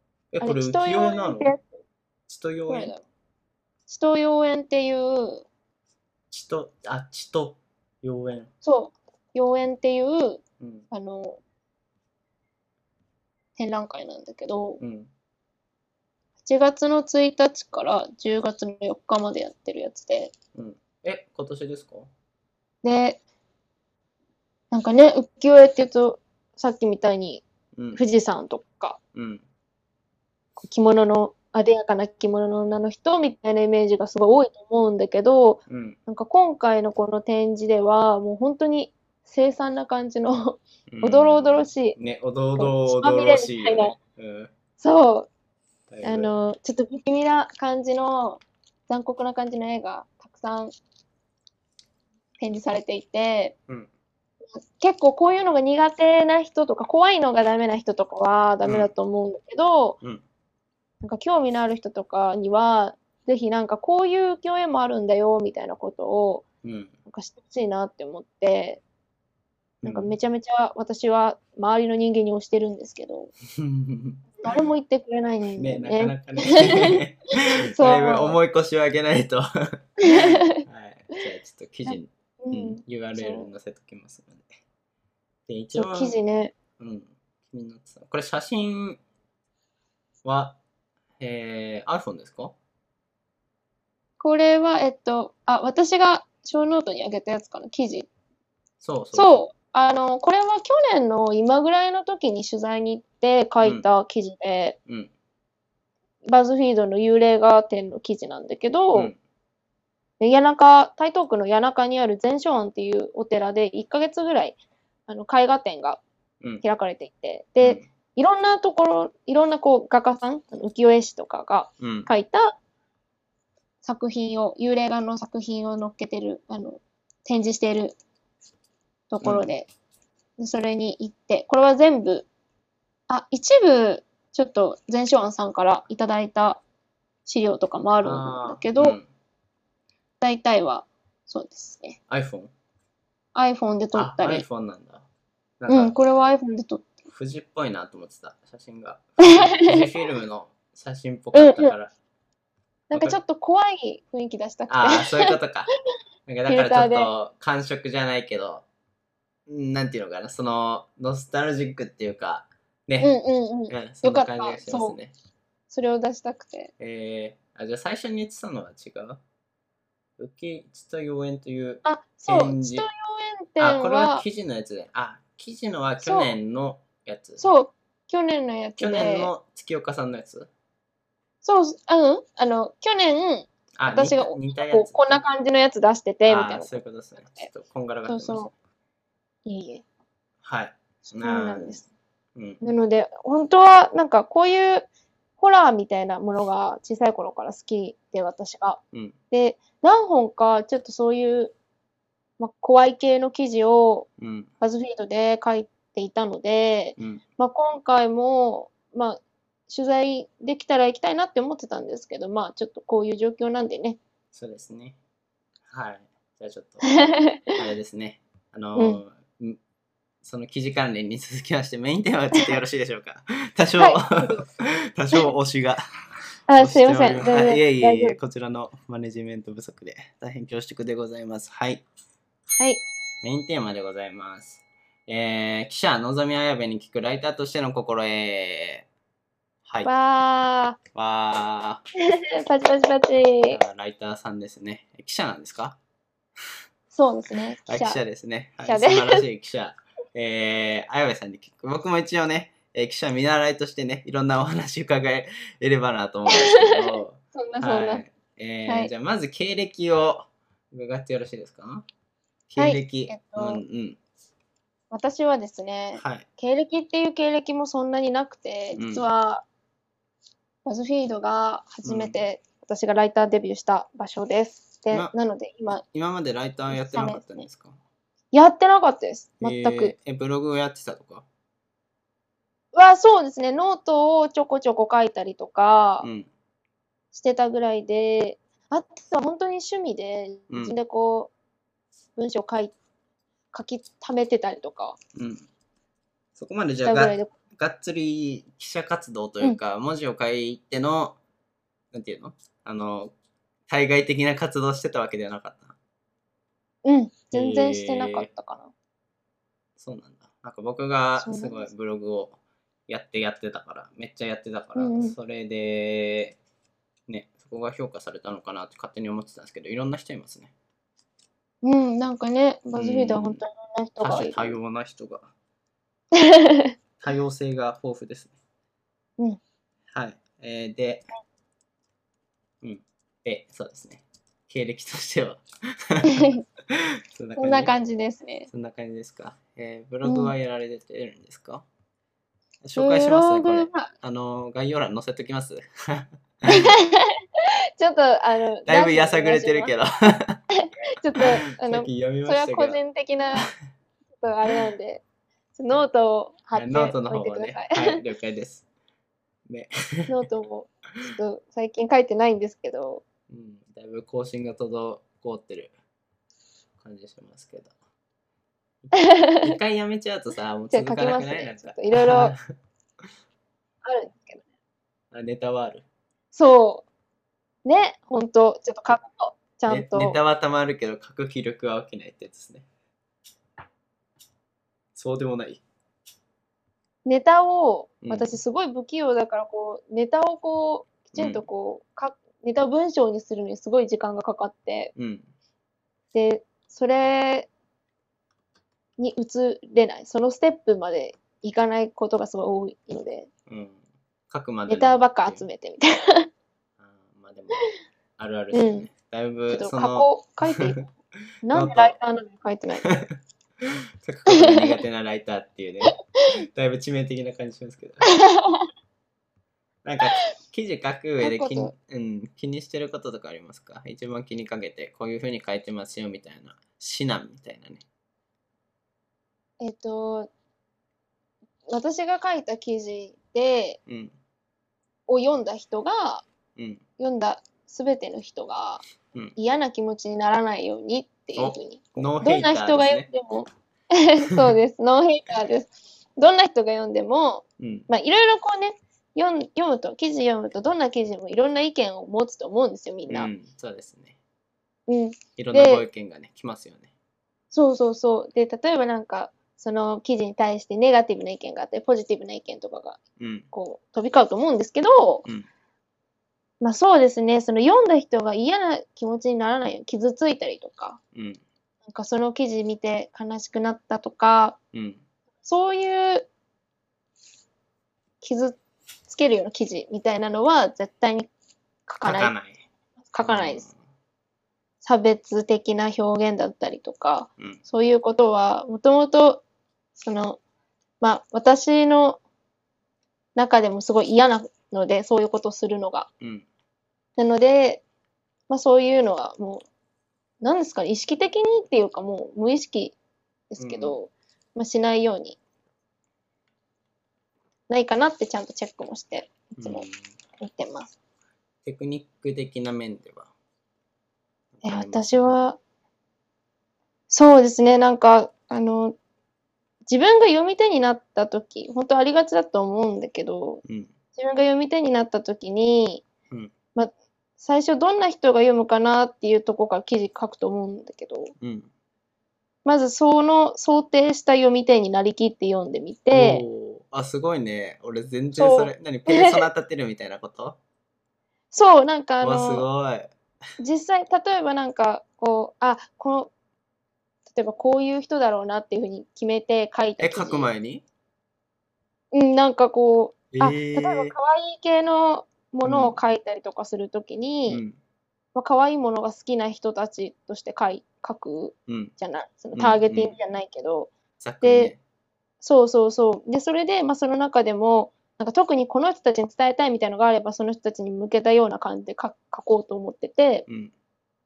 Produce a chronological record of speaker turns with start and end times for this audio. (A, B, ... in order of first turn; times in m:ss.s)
0:00.3-0:01.6 A
0:00.4-0:01.6 B
0:02.3-0:02.9 A
0:02.7-0:03.0 B
0:03.9-0:05.5 B
0:06.3-0:08.5 A
0:08.6-0:11.4 B
0:10.6-0:10.9 A
0:13.6-0:14.8 B
0:14.8-0:15.1 A
0:16.4-0:20.3 B
0:20.5-0:22.1 A
0:22.8-0:23.2 B
0:24.7-0:29.0 B
0:27.8-0:28.0 A
0:29.1-0:29.4 A
0:30.6-0:42.0 B
0:35.7-0:36.0 A
0:40.9-0:44.5 A
0:42.6-0:44.0 B
0:44.8-0:45.3 B
0:45.9-0:46.3 A
0:46.0-0:50.8 B
0:52.4-0:53.6 B
0:54.6-1:00.0 B
0:58.6-0:58.9 A
1:01.0-1:06.4 B
1:06.6-1:06.9 A
1:07.1-1:08.8 B
1:09.8-1:10.2 A
1:09.8-1:13.3 B
1:13.5-1:14.3 A
1:14.4-1:17.0 B
1:15.6-1:24.6 A
1:17.8-1:18.4 B
1:20.1-1:20.6 B
1:21.9-1:23.5 B
1:25.5-1:26.2 A
1:25.7-1:26.5 B
1:26.8-1:29.0 A
1:30.2-1:30.6 A
1:31.2-1:32.6 A
1:34.2-1:38.1 B
1:38.8-1:39.4 A
1:39.1-1:44.8 B
1:46.2-1:49.1 B
1:50.2-1:56.0 B
1:56.6-2:02.6 B
1:57.6-1:57.9 A
2:01.8-2:02.1 A
2:03.8-2:08.0 B
2:09.1-2:09.7 B
2:09.2-2:09.5 A
2:10.4-2:12.3 B
2:13.1-2:16.6 B
2:17.3-2:19.0 B
2:18.0-2:19.1 A
2:20.2-2:22.0 B
2:22.1-2:22.5 A
2:23.4-2:24.4 B
2:23.9-2:25.0 A
2:25.6-2:26.0 A
2:25.7-2:27.0 B
2:27.1-2:31.9 A
2:29.2-2:29.8 B
2:31.3-2:31.7 B
2:32.9-2:33.2 A
2:32.9-2:35.4 B
2:34.7-2:35.7 A
2:36.3-2:38.6 A
2:36.5-2:37.1 B
2:39.5-2:43.1 A
2:43.0-2:45.0 B
2:43.7-2:45.1 A
2:45.7-2:46.7 B
2:46.8-2:49.2 A
2:50.2-2:52.9 A
2:51.8-2:54.2 B
2:53.6-2:57.4 A
2:56.0-2:56.3 B
2:57.4-2:59.3 B
2:58.8-3:00.5 A
3:01.4-3:07.5 B
3:03.8-3:05.2 A
3:06.2-3:08.5 A
3:08.1-3:08.5 B
3:09.5-3:09.8 B
3:10.4-3:11.8 A
3:11.1-3:11.9 B
3:12.4-3:12.6 A
3:12.6-3:14.9 B
3:15.4-3:21.5 B
3:22.4-3:24.1 B
3:24.2-3:24.5 A
3:24.6-3:34.0 B
3:27.0-3:27.2 A
3:34.3-3:35.0 A
3:35.7-3:36.9 A
3:36.8-3:37.6 B
3:37.6-3:39.6 A
3:38.8-3:39.0 B
3:40.2-3:45.8 A
3:43.8-3:44.4 B
3:46.5-3:48.2 B
3:46.6-3:51.8 A
3:52.6-3:52.8 B
3:53.2-3:58.9 A
3:59.8-4:00.8 B
4:01.0-4:01.8 A
4:02.0-4:03.6 B
4:03.5-4:05.8 A
4:06.9-4:08.0 B
4:07.7-4:21.8 A
4:08.6-4:09.3 B
4:16.3-4:18.0 B
4:22.5-4:24.0 A
4:22.6-4:23.6 B
4:24.9-4:29.4 B
4:26.0-4:26.3 A
4:28.8-4:29.0 A
4:30.6-4:35.8 B
4:31.8-4:32.2 A
4:35.8-4:37.8 A
4:36.7-4:37.4 B
4:38.3-4:39.9 B
4:39.4-4:41.2 A
4:42.7-4:46.1 B
4:46.0-4:46.3 A
4:47.1-4:51.3 B
4:50.5-4:50.8 A
4:52.2-4:52.7 B
4:53.5-4:55.0 B
4:55.2-4:55.5 A
4:56.4-5:01.2 A
4:56.8-4:57.3 B
5:01.9-5:03.1 A
5:03.7-5:05.8 A
5:06.8-5:08.7 B
5:07.3-5:08.3 A
5:09.8-5:12.4 A
5:11.2-5:11.7 B
5:12.9-5:16.4 A
5:14.8-5:15.2 B
5:17.1-5:20.5 A
5:21.6-5:24.6 B
5:22.7-5:23.4 A
5:24.0-5:25.3 A
5:26.1-5:26.7 B
5:27.0-5:28.3 A
5:29.9-5:31.1 A
5:32.6-5:37.7 A
5:36.0-5:36.4 B
5:37.4-5:38.5 B
5:38.5-5:41.7 A
5:40.0-5:40.3 B
5:42.6-5:46.6 A
5:42.8-5:43.9 B
5:46.5-5:47.2 B
5:47.8-5:49.7 B
5:48.7-5:50.4 A
5:50.6-5:53.5 B
5:51.2-5:52.8 A
5:54.2-5:55.0 B
5:55.6-5:58.0 B
5:56.5-5:58.7 A
5:59.5-6:00.1 A
6:00.1-6:03.0 B
6:03.3-6:05.7 A
6:06.8-6:07.7 A
6:08.9-6:12.4 A
6:08.9-6:09.6 B
6:10.7-6:12.4 B
6:13.8-6:14.4 B
6:15.1-6:15.9 A
6:16.3-6:16.9 B
6:17.6-6:20.2 B
6:19.7-6:22.7 A
6:25.0-6:25.6 A
6:27.0-6:34.9 B
6:28.0-6:28.4 A
6:31.1-6:31.4 A
6:35.0-6:35.3 A
6:36.1-6:37.5 B
6:39.0-6:43.3 B
6:43.5-6:45.5 A
6:44.7-6:46.3 B
6:46.8-6:47.6 A
6:48.2-6:50.6 A
6:48.5-6:48.9 B
6:49.5-6:50.8 B
6:51.4-6:53.0 B
6:51.5-6:52.0 A
6:52.9-6:56.0 A
6:54.3-6:54.8 B
6:56.5-6:58.1 A
6:58.1-6:58.7 B
6:59.8-7:07.8 A
7:01.2-7:01.7 B
7:09.6-7:10.3 B
7:11.7-7:13.8 B
7:13.9-7:14.2 A
7:15.1-7:16.3 B
7:16.6-7:16.8 A
7:17.0-7:18.8 B
7:19.4-7:33.3 B
7:21.4-7:23.1 A
7:27.6-7:27.9 A
7:33.1-7:34.2 A
7:34.9-7:35.9 B
7:35.4-7:36.9 A
7:37.5-7:43.0 B
7:43.2-7:43.5 A
7:43.5-7:45.3 B
7:46.6-7:51.0 B
7:51.1-7:51.4 A
7:51.8-7:54.6 B
7:54.7-7:55.0 A
7:55.4-7:56.3 B
7:58.2-8:01.3 B
8:01.9-8:02.3 B
8:02.0-8:02.6 A
8:03.1-8:03.7 B
8:03.2-8:03.8 A
8:04.8-8:09.4 B
8:10.0-8:10.4 B
8:11.0-8:12.2 B
8:13.4-8:16.1 B
8:16.2-8:16.5 A
8:17.2-8:17.8 B
8:18.5-8:19.6 B
8:20.4-8:23.0 B
8:23.5-8:25.4 B
8:23.6-8:24.0 A
8:27.7-8:29.9 B
8:29.6-8:30.0 A
8:30.4-8:31.0 B
8:31.6-8:33.3 A
8:34.6-8:35.3 A
8:34.6-8:35.6 B
8:37.1-8:39.0 B
8:39.9-8:43.6 B
8:43.6-8:43.9 A
8:44.2-8:46.0 B
8:46.8-8:51.3 B
8:51.4-8:51.7 A
8:52.6-8:56.4 B
8:56.1-9:00.6 A
8:58.4-8:59.5 B
9:01.5-9:02.7 B
9:02.2-9:03.1 A
9:03.6-9:06.3 B
9:07.3-9:10.5 B
9:10.0-9:10.8 A
9:12.1-9:17.6 B
9:13.3-9:14.2 A
9:15.6-9:16.0 A
9:17.5-9:17.8 A
9:18.4-9:24.7 B
9:21.7-9:21.9 A
9:22.5-9:23.2 A
9:24.2-9:24.8 A
9:25.4-9:33.5 B
9:33.5-9:33.7 A